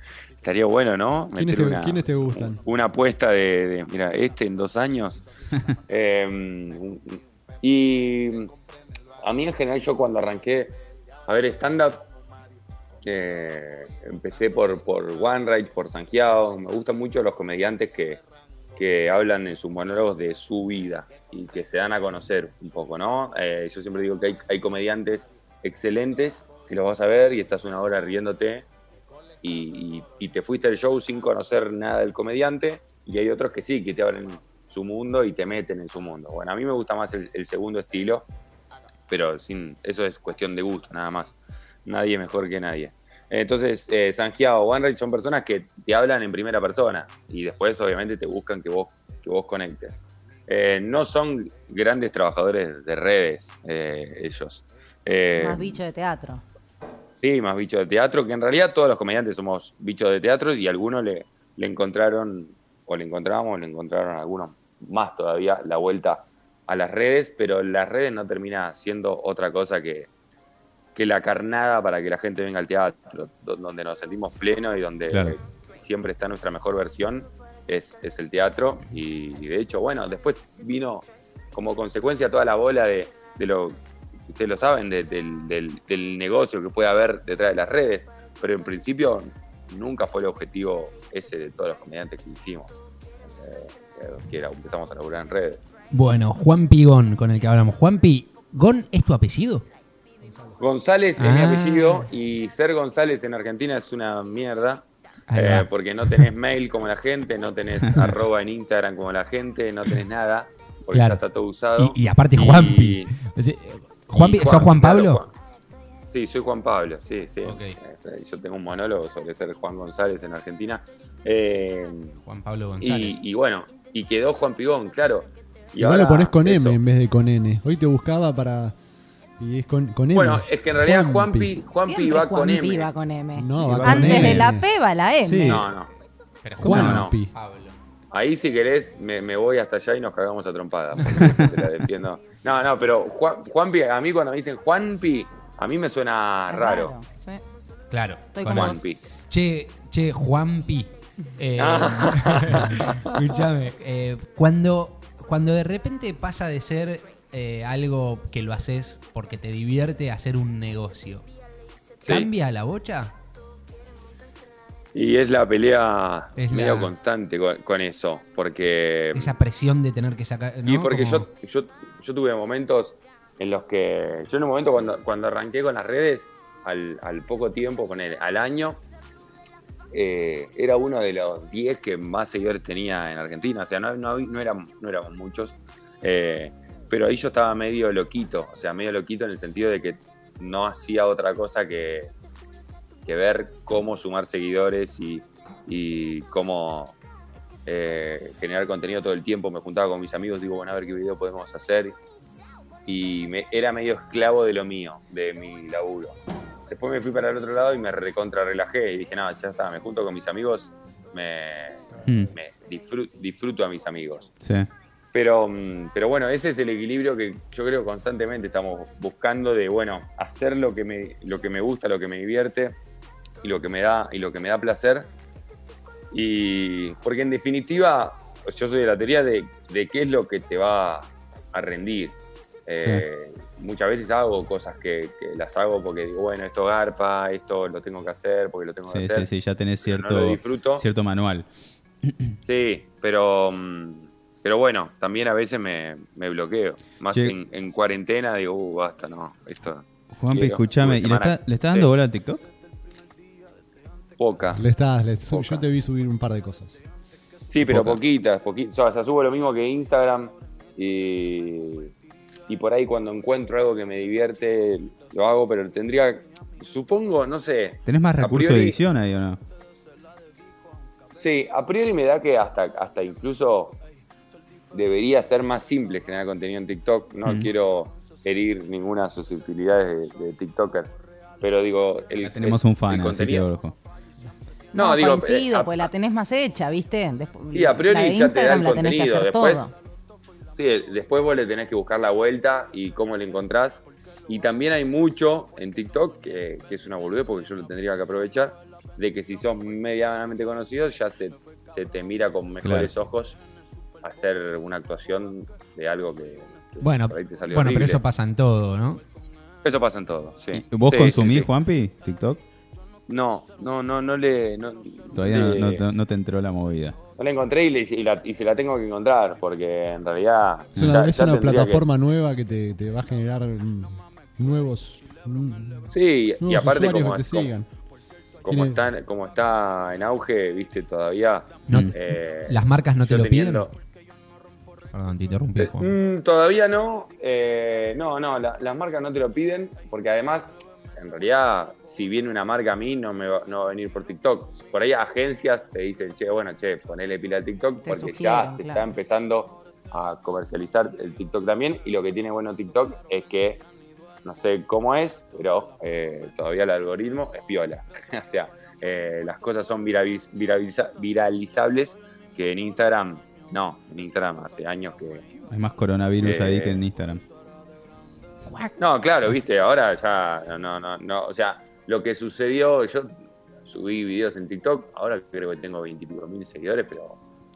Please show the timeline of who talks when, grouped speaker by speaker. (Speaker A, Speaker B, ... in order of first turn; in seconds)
Speaker A: 0.4-5.2, 5.9-8.5, 9.2-12.1, 13.0-18.2, 18.8-28.7, 29.4-38.3, 39.1-55.8, 57.2-70.1, 71.0-92.7, 93.2-95.6, 100.6-113.1, 114.1-115.3, 116.1-122.2, 122.8-126.8, 130.1-132.9, 133.6-134.2, 135.5-135.9, 136.7-137.2, 138.1-146.9, 148.5-149.0, 151.6-153.2, 162.0-162.3, 164.9-169.3, 170.7-178.8, 179.9-192.1, 193.0-197.0, 197.7-202.0, 202.9-206.2, 206.7-214.3, 215.1-222.8, 223.4-225.1, 226.1-239.3, 239.8-240.9, 242.4-251.9, 254.2-254.6, 255.3-255.7, 257.5-261.9, 262.5-268.8, 271.1-273.8, 274.7-283.5, 284.7-285.9, 287.5-289.7, 290.5-303.4, 304.0-308.0, 309.6-311.5, 313.1-315.9, 317.2-321.8, 325.9-327.5, 328.4-333.7, 335.6-353.6, 354.2-365.2, 366.2-366.8, 368.8-377.2
Speaker B: 1.4-2.6, 125.8-128.8, 129.4-131.6, 133.3-134.7, 136.6-137.3, 254.5-256.8, 320.8-327.7, 328.5-328.8
Speaker C: 55.4-56.4, 131.8-135.7, 146.5-147.4, 148.3-148.8, 284.8-289.7, 347.9-348.9
Speaker D: 75.1-75.4, 133.9-134.5, 135.2-135.6, 136.6-137.0, 141.2-141.5, 212.0-212.3, 214.4-214.7, 232.8-233.0, 238.9-241.5, 242.0-242.4, 250.1-252.4, 257.6-258.0, 267.9-269.4, 277.2-277.5, 282.2-283.7, 302.6-302.9, 310.5-312.4, 315.1-317.0, 331.7-332.0, 365.5-367.2
Speaker E: 95.9-99.7, 101.2-102.1, 105.3-106.3, 110.9-111.2, 111.8-115.2, 117.5-117.8, 122.2-123.1, 136.4-137.8, 147.9-161.2, 162.1-163.1, 166.4-166.9, 169.1-171.3, 306.8-309.0, 331.7-333.7, 334.9-335.9, 368.5-368.7